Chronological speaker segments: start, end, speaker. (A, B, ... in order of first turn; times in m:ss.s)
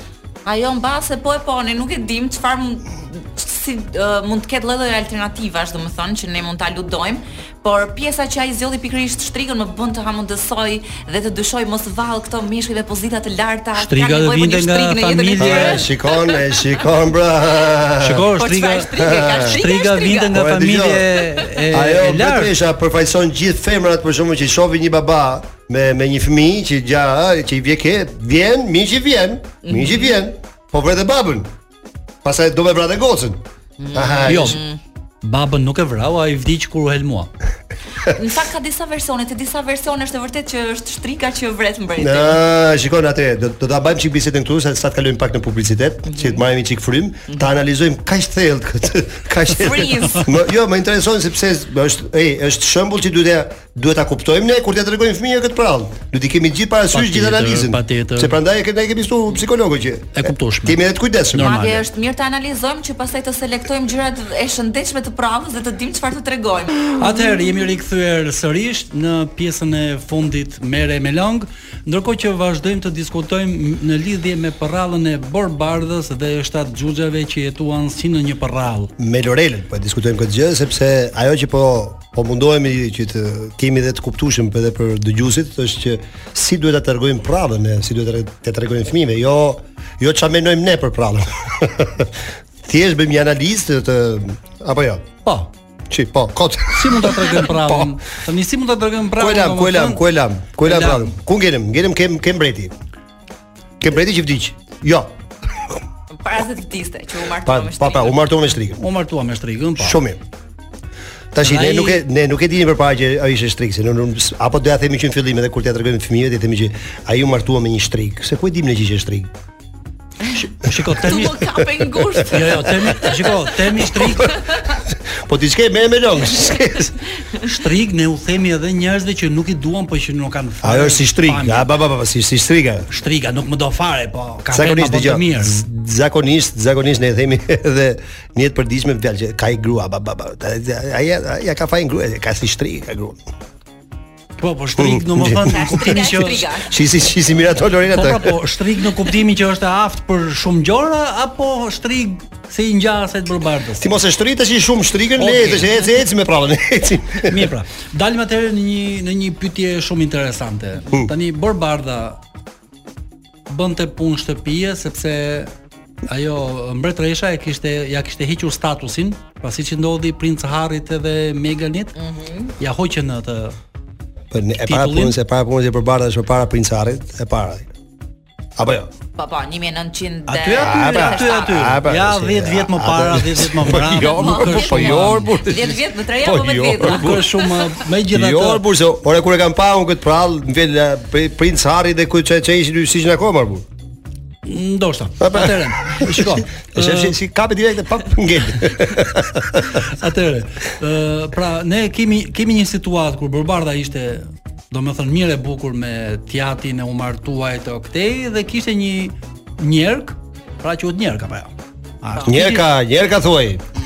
0:00.4-0:16.8 A
0:13.8-0:15.9 B
0:15.4-0:18.3 C
0:18.0-0:18.9 B
0:18.3-0:20.4 A
0:19.0-0:19.6 C
0:19.5-0:22.5 B
0:20.3-0:31.5 C
0:21.3-0:21.6 A
0:29.6-0:30.2 A
0:32.2-0:33.4 C
0:33.8-0:34.8 A
0:33.9-0:34.6 C
0:34.3-0:34.6 B
0:35.2-0:37.3 B
0:38.0-0:42.4 A
0:42.0-1:01.7 C
0:46.1-0:46.4 A
0:49.5-0:50.4 A
0:56.9-0:58.4 B
1:00.1-1:00.8 B
1:01.3-1:01.8 B
1:01.4-1:07.1 A
1:06.9-1:18.9 B
1:19.0-1:35.1 C
1:35.9-1:37.9 C
1:36.7-1:40.0 B
1:39.2-1:42.8 C
1:40.6-1:41.1 B
1:43.8-1:45.1 C
1:46.2-1:48.3 A
1:47.4-1:48.8 C
1:48.8-1:50.0 B
1:49.8-1:50.2 C
1:51.3-1:59.3 C
1:51.4-1:52.0 B
2:00.3-2:01.7 B
2:00.9-2:03.3 A
2:02.2-2:04.4 B
2:04.0-2:07.0 C
2:04.1-2:04.6 A
2:07.4-2:11.7 B
2:10.6-2:12.9 C
2:12.9-2:15.6 B
2:14.5-2:23.2 C
2:24.4-2:26.5 B
2:24.8-2:28.4 C
2:25.4-2:26.8 A
2:27.9-2:33.9 B
2:33.8-2:37.5 C
2:35.2-2:35.8 B
2:37.2-2:42.2 B
2:43.5-2:45.5 B
2:46.0-2:51.9 B
2:52.0-2:52.5 A
2:52.6-2:53.6 B
2:54.3-2:57.7 C
2:54.6-2:55.2 B
2:58.6-2:58.9 C
2:59.2-3:01.7 A
3:00.3-3:05.4 B
3:00.5-3:07.3 C
3:04.0-3:07.7 A
3:06.8-3:08.6 B
3:08.1-3:13.7 C
3:14.4-3:17.1 B
3:15.2-3:19.8 C
3:19.8-3:32.7 B
3:32.2-3:33.6 C